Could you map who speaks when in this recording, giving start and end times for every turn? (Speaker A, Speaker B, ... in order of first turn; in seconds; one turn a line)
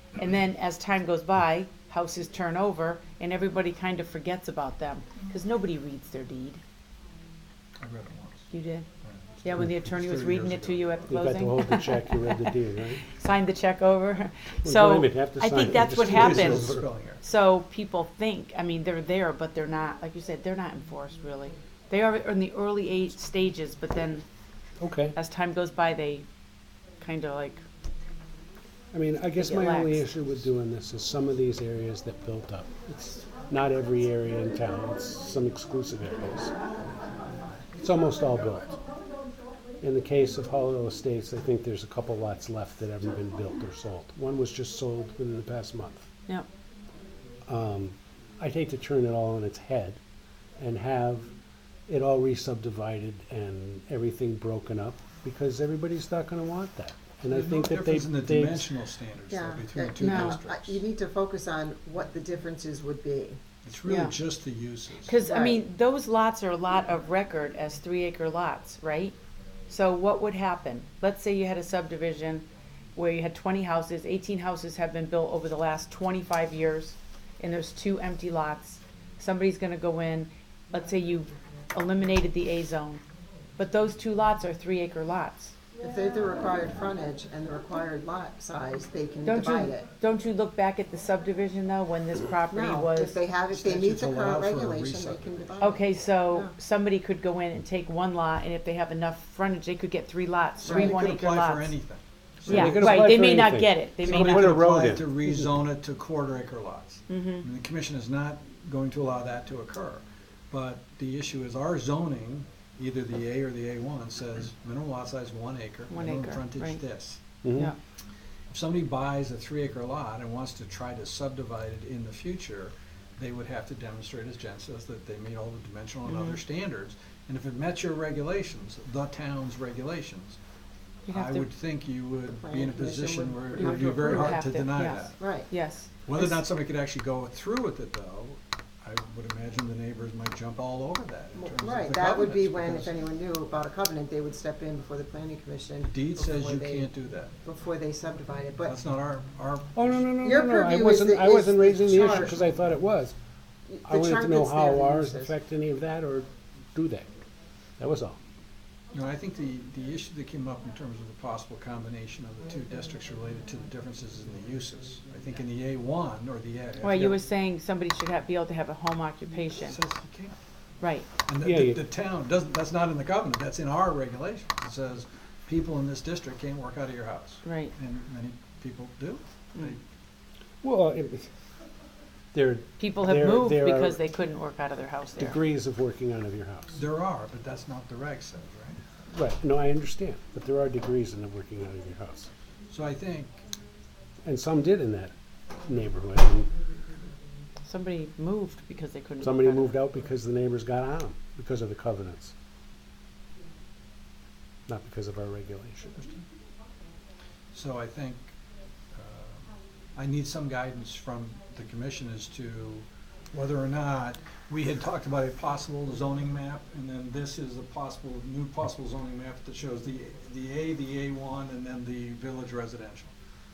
Speaker A: 0.2-6.6
Speaker B: 7.8-8.5
Speaker A: 8.5-8.8
Speaker B: 9.0-10.9
Speaker A: 9.4-24.2
Speaker C: 11.1-13.0
Speaker C: 14.6-16.9
Speaker B: 15.7-17.2
Speaker C: 24.8-25.1
Speaker A: 25.1-26.2
Speaker A: 27.0-27.6
Speaker C: 28.9-36.5
Speaker A: 29.4-30.1
Speaker C: 37.8-38.8
Speaker C: 39.8-46.0
Speaker C: 47.5-50.0
Speaker C: 50.6-51.3
Speaker C: 51.9-58.7
Speaker B: 57.3-60.8
Speaker D: 59.3-63.4
Speaker A: 60.0-60.4
Speaker B: 63.6-65.1
Speaker A: 63.9-64.1
Speaker A: 65.0-69.2
Speaker D: 65.2-65.6
Speaker A: 69.7-83.0
Speaker A: 83.6-85.5
Speaker D: 85.8-89.9
Speaker A: 89.2-93.2
Speaker D: 92.5-96.5
Speaker B: 93.5-95.8
Speaker A: 95.6-101.7
Speaker D: 100.6-101.1
Speaker B: 100.6-103.1
Speaker C: 102.5-105.5
Speaker A: 102.5-104.6
Speaker D: 102.5-102.9
Speaker B: 104.0-117.2
Speaker A: 107.1-107.4
Speaker A: 115.9-116.8
Speaker C: 117.4-117.7
Speaker B: 118.5-130.4
Speaker A: 126.0-126.4
Speaker A: 131.1-131.4
Speaker B: 131.1-135.3
Speaker D: 132.3-134.4
Speaker A: 133.5-136.4
Speaker D: 135.2-135.5
Speaker B: 136.0-142.9
Speaker D: 141.3-146.9
Speaker B: 145.8-147.3
Speaker D: 147.4-148.8
Speaker B: 148.6-150.1
Speaker C: 149.8-153.1
Speaker D: 150.2-152.4
Speaker B: 152.0-152.3
Speaker D: 153.7-155.3
Speaker C: 153.8-157.1
Speaker C: 157.8-158.2
Speaker B: 158.9-167.2
Speaker A: 166.8-169.8
Speaker B: 169.6-170.3
Speaker A: 170.8-171.1
Speaker B: 171.2-179.8
Speaker C: 171.4-171.8
Speaker A: 177.4-177.7
Speaker C: 180.6-181.3
Speaker C: 182.3-184.0
Speaker A: 182.8-185.4
Speaker C: 185.2-186.8
Speaker B: 186.7-188.8
Speaker C: 189.1-192.3
Speaker B: 192.7-193.4
Speaker C: 194.2-195.1
Speaker C: 195.6-196.5
Speaker A: 197.6-199.7
Speaker C: 199.2-202.3
Speaker C: 204.7-205.9
Speaker B: 205.9-206.2
Speaker B: 207.5-208.3
Speaker B: 208.9-223.1